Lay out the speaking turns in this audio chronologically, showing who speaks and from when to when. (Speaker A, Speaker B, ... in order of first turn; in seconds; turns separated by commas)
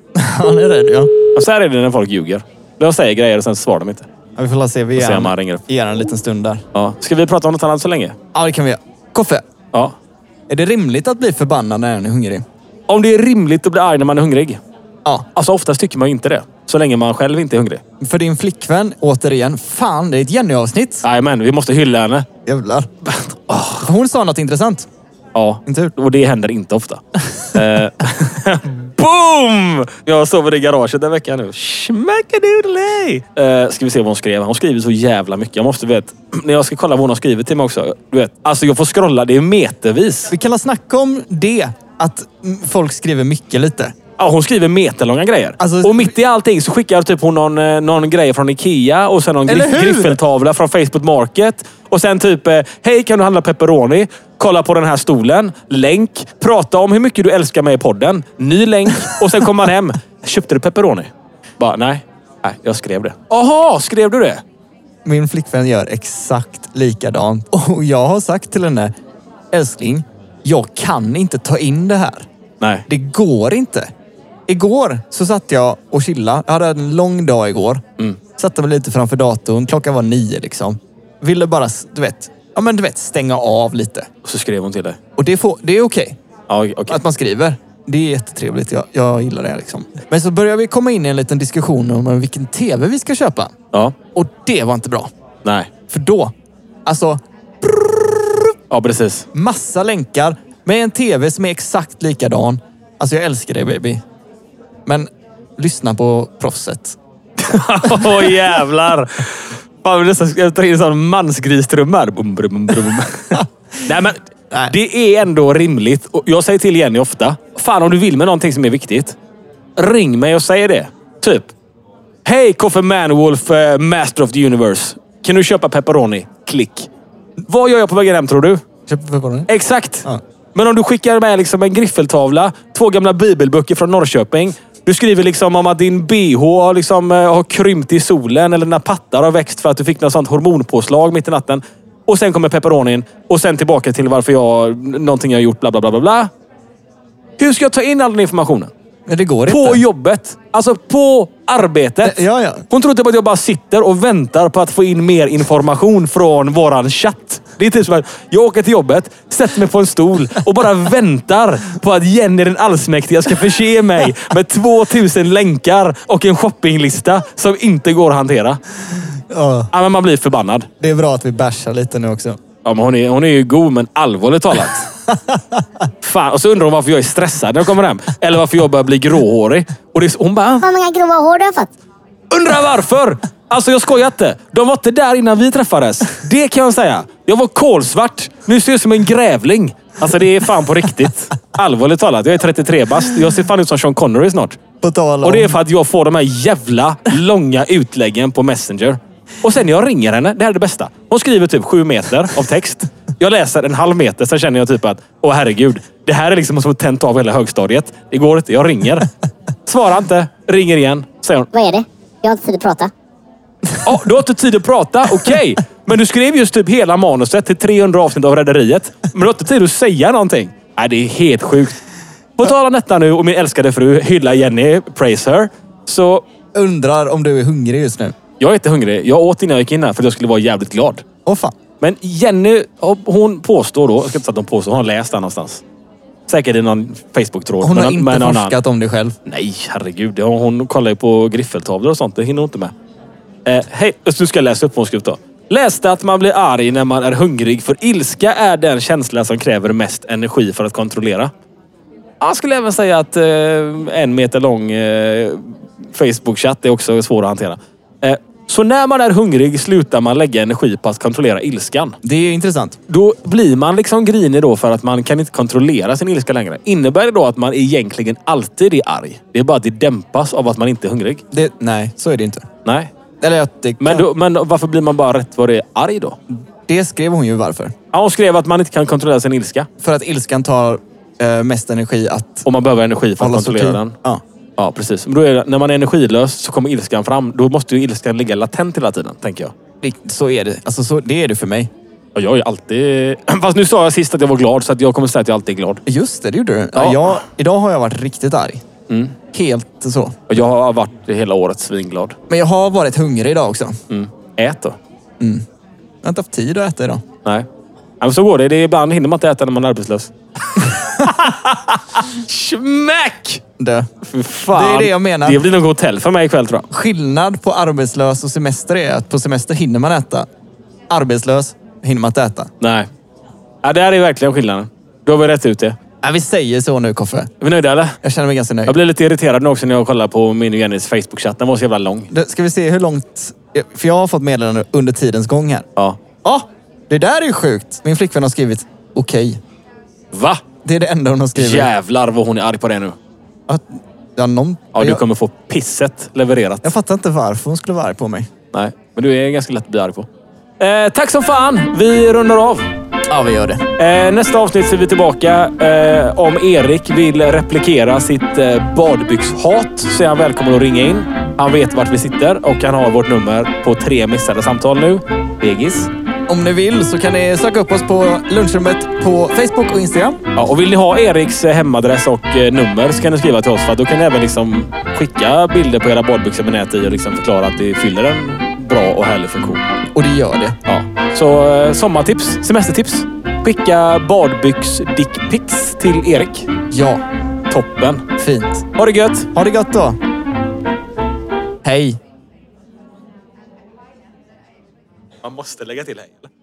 Speaker A: 0.1-1.1, Speaker B: 1.3-4.1, Speaker A: 4.4-6.6, Speaker B: 5.0-5.6, Speaker B: 6.7-8.2, Speaker A: 8.3-9.4, Speaker A: 10.5-12.4, Speaker B: 12.9-14.6, Speaker B: 15.3-17.8, Speaker A: 18.0-21.0, Speaker B: 21.0-22.3, Speaker A: 22.4-22.9, Speaker B: 23.1-23.9, Speaker A: 23.8-24.9, Speaker B: 25.3-40.3, Speaker A: 25.6-25.9, Speaker A: 40.3-43.9, Speaker B: 44.2-64.4, Speaker A: 45.6-46.1, Speaker A: 49.5-50.2, Speaker A: 65.0-68.9, Speaker A: 69.5-72.3, Speaker A: 72.9-73.9, Speaker A: 74.5-77.8, Speaker A: 78.4-84.1, Speaker B: 84.2-85.0, Speaker A: 85.2-86.2, Speaker B: 86.5-87.0, Speaker A: 86.9-93.5, Speaker A: 94.1-95.1, Speaker B: 95.4-95.7, Speaker A: 95.9-96.3, Speaker A: 96.8-98.5, Speaker B: 98.7-99.2, Speaker A: 99.3-104.0, Speaker A: 104.8-107.0, Speaker B: 107.4-119.2, Speaker B: 119.8-121.5, Speaker B: 122.2-126.9, Speaker B: 127.5-128.6, Speaker A: 128.9-129.5, Speaker B: 129.5-146.3, Speaker B: 147.4-148.7, Speaker A: 149.1-149.8, Speaker B: 149.5-168.6, Speaker A: 152.0-152.6, Speaker A: 169.3-169.7, Speaker B: 169.7-170.7, Speaker A: 170.8-172.4, Speaker B: 172.6-174.8, Speaker A: 175.1-175.6, Speaker B: 176.0-180.6, Speaker C: 180.6-181.7, Speaker B: 182.3-194.6, Speaker A: 194.8-195.5, Speaker B: 195.2-209.1, Speaker B: 209.7-211.5, Speaker C: 211.5-212.9, Speaker B: 213.8-221.8, Speaker B: 222.4-226.2, Speaker A: 226.5-228.1, Speaker B: 228.4-231.0, Speaker A: 231.2-231.6, Speaker B: 231.8-235.6, Speaker B: 236.3-238.5, Speaker A: 237.6-239.2, Speaker B: 239.2-242.7, Speaker B: 243.4-251.3, Speaker B: 252.2-261.9, Speaker A: 262.0-262.8, Speaker B: 262.9-271.2, Speaker A: 271.3-272.4, Speaker B: 272.6-272.9, Speaker A: 273.2-274.0, Speaker B: 273.8-276.2, Speaker A: 276.7-277.7, Speaker B: 277.9-279.7, Speaker A: 279.8-282.4, Speaker B: 282.4-283.9, Speaker A: 283.2-284.2, Speaker B: 284.6-289.5, Speaker A: 289.8-291.7, Speaker B: 292.1-295.8, Speaker A: 295.9-298.6, Speaker B: 296.7-297.0, Speaker B: 298.9-299.1, Speaker A: 299.3-300.2, Speaker B: 300.3-302.1, Speaker A: 302.3-303.8, Speaker B: 303.9-304.8, Speaker A: 305.2-305.4, Speaker A: 306.0-307.0, Speaker B: 308.0-313.4, Speaker A: 313.6-313.9, Speaker B: 314.0-316.6, Speaker A: 314.5-315.4, Speaker A: 316.7-320.3, Speaker A: 320.9-322.5, Speaker B: 322.6-322.9, Speaker B: 323.6-325.8, Speaker A: 326.0-327.3, Speaker B: 327.4-327.9, Speaker A: 328.0-328.8, Speaker B: 328.6-332.1, Speaker A: 332.1-335.6, Speaker A: 336.2-339.4, Speaker B: 340.1-340.4, Speaker A: 340.6-341.7, Speaker B: 341.3-342.9, Speaker A: 343.5-345.0, Speaker B: 344.7-346.7, Speaker A: 346.6-348.3, Speaker B: 348.5-350.1, Speaker B: 350.6-352.7, Speaker A: 353.1-353.6, Speaker B: 353.8-365.9, Speaker A: 366.3-370.2, Speaker B: 370.3-379.6, Speaker A: 379.9-380.6, Speaker B: 380.6-386.5, Speaker A: 386.7-387.0, Speaker B: 387.5-388.1, Speaker A: 388.2-388.6, Speaker B: 388.8-389.3, Speaker A: 389.3-390.0, Speaker A: 391.6-392.0, Speaker B: 395.2-396.3